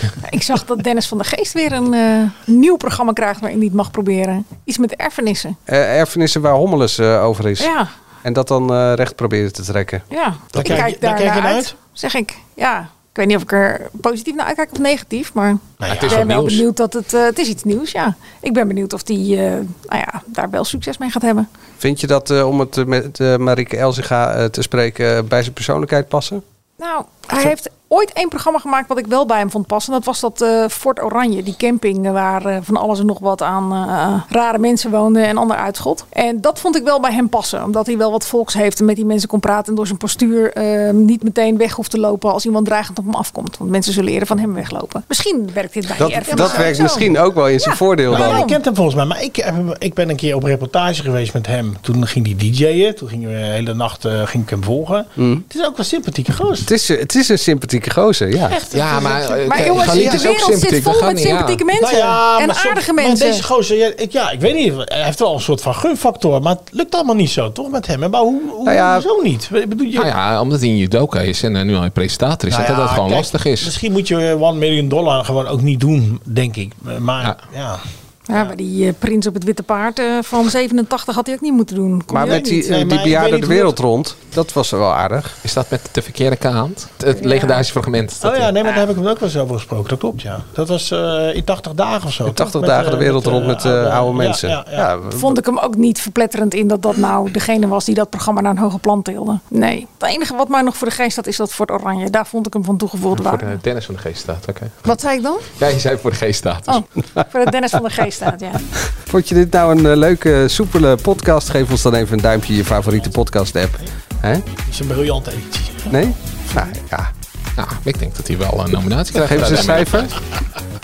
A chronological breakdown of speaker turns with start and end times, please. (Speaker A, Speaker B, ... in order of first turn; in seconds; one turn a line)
Speaker A: 0.2-5.6
Speaker B: 5.7-7.7
Speaker A: 7.6-7.9
Speaker B: 8.2-10.1
Speaker A: 10.1-21.5
Speaker C: 10.6-11.7
Speaker C: 15.8-16.2
Speaker D: 15.9-16.6
Speaker B: 21.8-26.4
Speaker A: 26.8-48.6
Speaker B: 46.0-48.5
Speaker C: 46.3-46.7
Speaker C: 48.1-56.7
Speaker B: 55.2-55.4
Speaker B: 56.6-58.6
Speaker C: 58.5-59.8
Speaker D: 58.7-61.6
Speaker A: 59.5-63.4
Speaker B: 59.6-60.3
Speaker C: 61.8-70.1
Speaker B: 68.6-69.0
Speaker D: 70.0-73.7
Speaker C: 72.5-78.5
Speaker A: 78.3-82.6
Speaker B: 82.1-85.4
Speaker C: 82.2-83.8
Speaker D: 85.4-88.5
Speaker A: 87.1-87.6
Speaker C: 88.2-94.9
Speaker B: 92.3-95.4
Speaker A: 95.1-103.5
Speaker D: 103.2-104.8
Speaker A: 104.9-105.4
Speaker D: 105.6-106.8
Speaker A: 106.7-108.6
Speaker B: 108.9-114.4
Speaker C: 114.6-116.7
Speaker B: 115.9-117.1
Speaker D: 117.5-120.2
Speaker B: 119.2-120.1